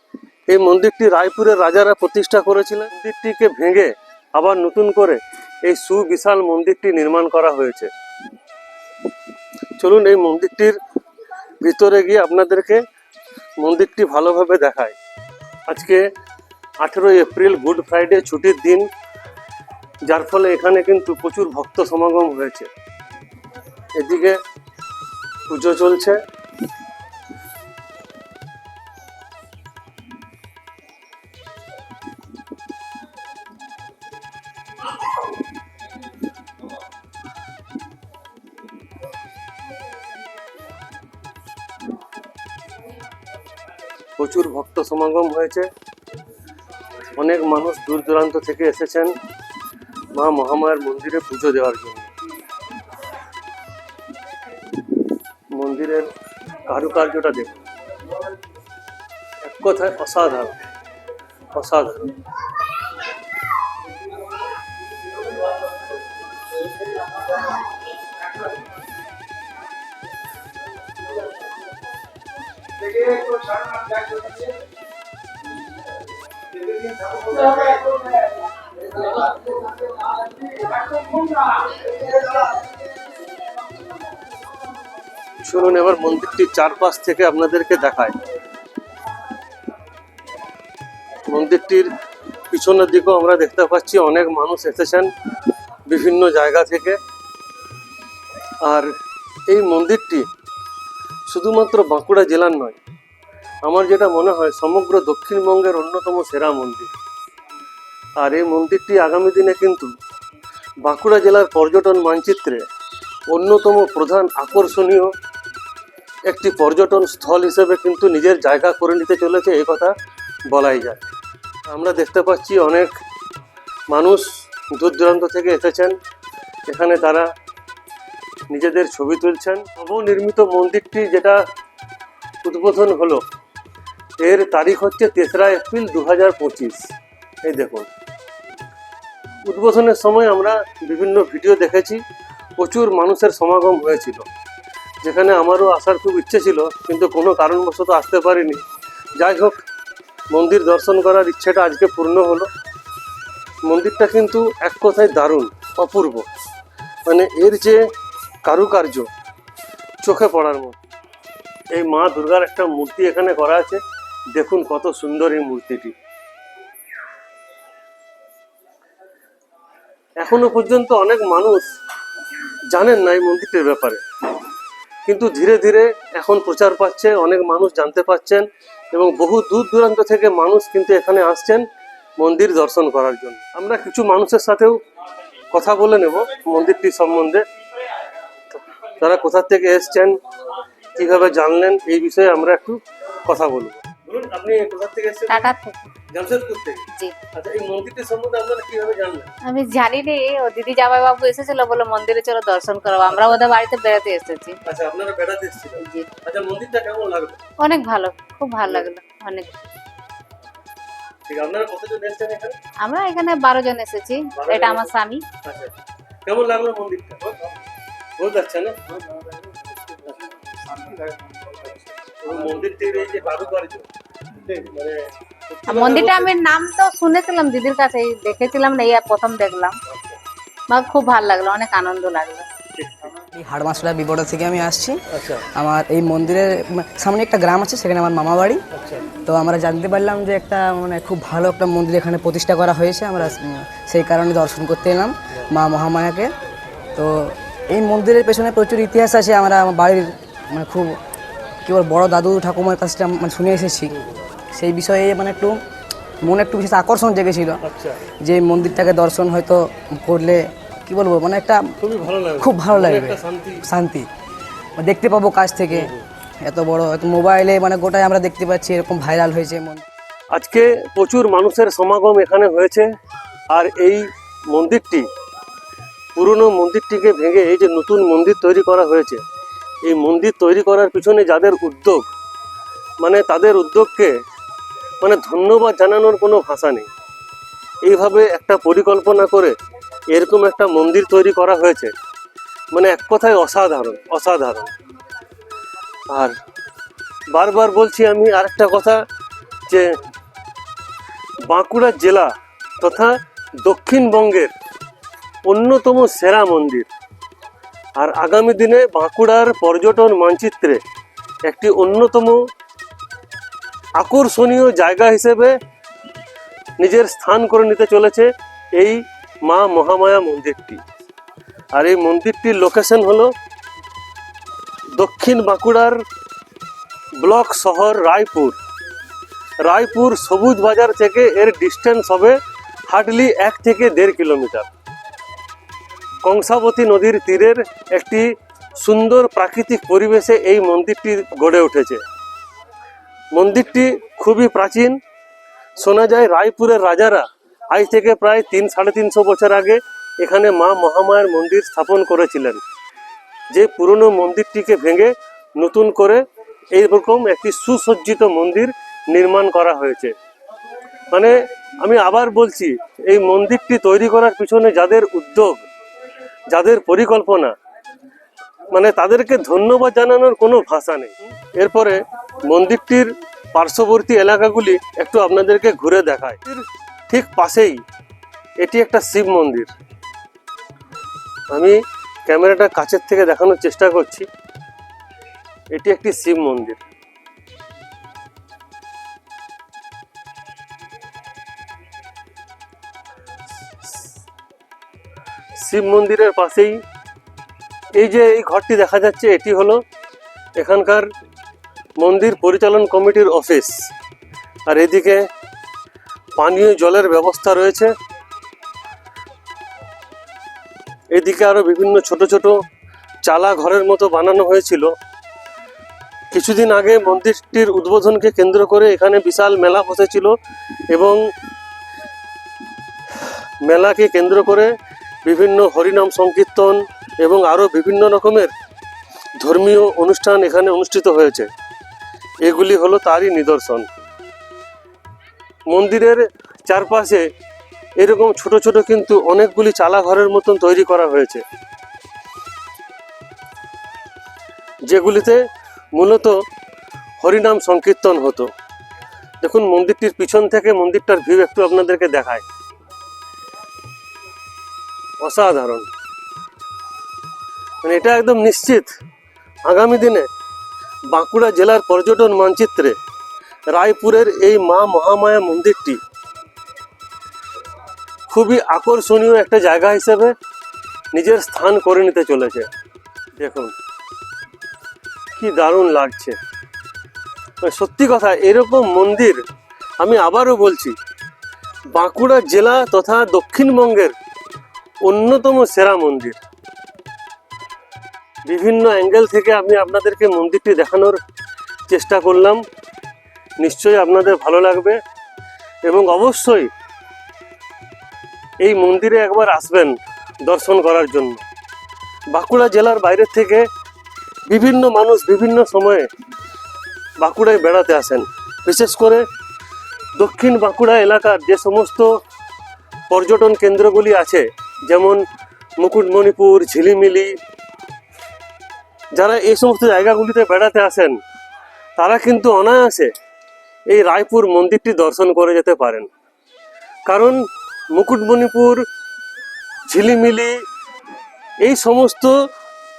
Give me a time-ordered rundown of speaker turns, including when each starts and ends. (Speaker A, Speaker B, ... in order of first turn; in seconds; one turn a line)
Speaker A: 0.5-7.9
Speaker A: 9.8-10.8
Speaker A: 11.6-12.8
Speaker A: 13.6-14.9
Speaker A: 15.7-16.0
Speaker A: 16.8-18.9
Speaker A: 20.1-22.7
Speaker A: 23.9-24.4
Speaker A: 25.5-26.2
Speaker A: 44.2-45.7
Speaker A: 47.2-49.1
Speaker A: 50.1-52.1
Speaker A: 55.5-56.1
Speaker A: 56.6-57.6
Speaker A: 59.4-60.5
Speaker A: 61.5-62.1
Speaker A: 85.4-88.1
Speaker A: 91.3-91.9
Speaker A: 92.5-95.1
Speaker A: 95.9-97.0
Speaker A: 98.6-98.9
Speaker A: 99.5-100.3
Speaker A: 101.3-102.8
Speaker A: 103.6-106.9
Speaker A: 108.2-109.9
Speaker A: 110.8-112.6
Speaker A: 113.3-115.1
Speaker A: 116.3-119.9
Speaker A: 120.5-121.1
Speaker A: 121.7-122.9
Speaker A: 123.9-125.9
Speaker A: 126.7-127.3
Speaker A: 128.5-131.4
Speaker A: 132.4-133.2
Speaker A: 134.2-136.9
Speaker A: 137.4-137.9
Speaker A: 139.4-142.0
Speaker A: 142.6-144.2
Speaker A: 145.0-148.6
Speaker A: 149.2-149.6
Speaker A: 150.3-152.5
Speaker A: 153.7-156.2
Speaker A: 157.1-157.8
Speaker A: 158.4-159.1
Speaker A: 160.0-160.8
Speaker A: 161.7-163.8
Speaker A: 164.3-165.9
Speaker A: 170.2-171.7
Speaker A: 172.7-174.0
Speaker A: 175.1-181.6
Speaker A: 182.2-184.8
Speaker A: 185.5-187.4
Speaker A: 188.8-190.2
Speaker A: 190.9-195.5
Speaker B: 195.3-195.8
Speaker A: 196.1-199.3
Speaker B: 199.5-204.6
Speaker A: 204.6-207.4
Speaker B: 205.8-206.1
Speaker B: 207.6-209.5
Speaker A: 211.3-212.5
Speaker B: 212.8-215.2
Speaker A: 214.3-214.9
Speaker A: 215.4-215.7
Speaker A: 216.2-217.2
Speaker A: 218.2-218.7
Speaker A: 222.2-223.8
Speaker A: 224.5-226.3
Speaker B: 225.7-229.8
Speaker B: 230.7-232.5
Speaker A: 232.8-233.1
Speaker C: 233.3-235.0
Speaker A: 235.1-235.4
Speaker C: 235.5-246.3
Speaker A: 238.7-239.1
Speaker C: 246.9-251.0
Speaker C: 251.7-253.9
Speaker A: 253.9-254.2
Speaker C: 254.5-255.6
Speaker C: 256.2-257.6
Speaker A: 257.6-258.0
Speaker C: 258.2-261.7
Speaker A: 261.8-263.6
Speaker C: 262.4-264.1
Speaker C: 264.8-265.9
Speaker A: 265.7-266.0
Speaker C: 266.4-269.8
Speaker A: 270.3-272.9
Speaker A: 273.5-275.1
Speaker A: 276.1-279.2
Speaker A: 279.8-282.1
Speaker A: 283.0-284.1
Speaker A: 285.0-286.9
Speaker A: 287.8-289.5
Speaker A: 290.1-291.9
Speaker A: 292.7-294.7
Speaker A: 297.3-299.0
Speaker A: 301.4-304.5
Speaker A: 305.4-306.9
Speaker A: 308.0-310.8
Speaker A: 311.4-312.4
Speaker A: 314.0-315.6
Speaker A: 316.8-320.8
Speaker A: 321.7-323.3
Speaker A: 324.9-326.0
Speaker A: 327.2-328.6
Speaker A: 329.6-332.4
Speaker A: 332.9-334.7
Speaker A: 336.2-338.3
Speaker A: 338.8-342.0
Speaker A: 343.3-345.0
Speaker A: 345.8-352.6
Speaker A: 353.5-360.1
Speaker A: 361.1-365.6
Speaker A: 366.5-367.5
Speaker A: 368.7-377.8
Speaker A: 378.6-379.7
Speaker A: 381.5-384.3
Speaker A: 385.7-386.8
Speaker A: 395.6-396.8
Speaker A: 397.9-399.8
Speaker A: 400.6-401.1
Speaker A: 402.0-403.7
Speaker A: 404.7-405.2
Speaker A: 406.4-407.9
Speaker A: 411.1-412.6
Speaker A: 413.2-414.9
Speaker A: 416.3-420.3
Speaker A: 420.9-421.2
Speaker A: 423.6-424.7
Speaker A: 425.2-428.5
Speaker A: 429.4-431.5
Speaker A: 432.4-433.9
Speaker A: 435.7-437.2
Speaker A: 438.0-441.4
Speaker A: 444.9-445.4
Speaker A: 445.9-446.4
Speaker A: 447.2-448.5
Speaker A: 449.4-452.4
Speaker A: 455.2-455.9
Speaker A: 457.8-458.9
Speaker A: 459.6-460.3
Speaker A: 461.1-462.9
Speaker A: 463.7-466.0
Speaker A: 468.3-470.3
Speaker A: 471.1-472.7
Speaker A: 473.4-473.7
Speaker A: 475.4-476.4
Speaker A: 477.6-479.4
Speaker A: 480.0-480.9
Speaker A: 481.9-484.1
Speaker A: 485.0-486.4
Speaker A: 488.5-491.2
Speaker A: 491.9-492.6
Speaker A: 493.6-495.0
Speaker A: 495.8-496.7
Speaker A: 498.6-501.4
Speaker A: 502.3-503.6
Speaker A: 504.5-506.1
Speaker A: 507.2-509.2
Speaker A: 510.2-512.1
Speaker A: 513.1-515.2
Speaker A: 515.8-517.3
Speaker A: 519.1-521.2
Speaker A: 522.0-523.1
Speaker A: 523.9-526.1
Speaker A: 527.1-528.8
Speaker A: 529.9-530.5
Speaker A: 531.6-532.3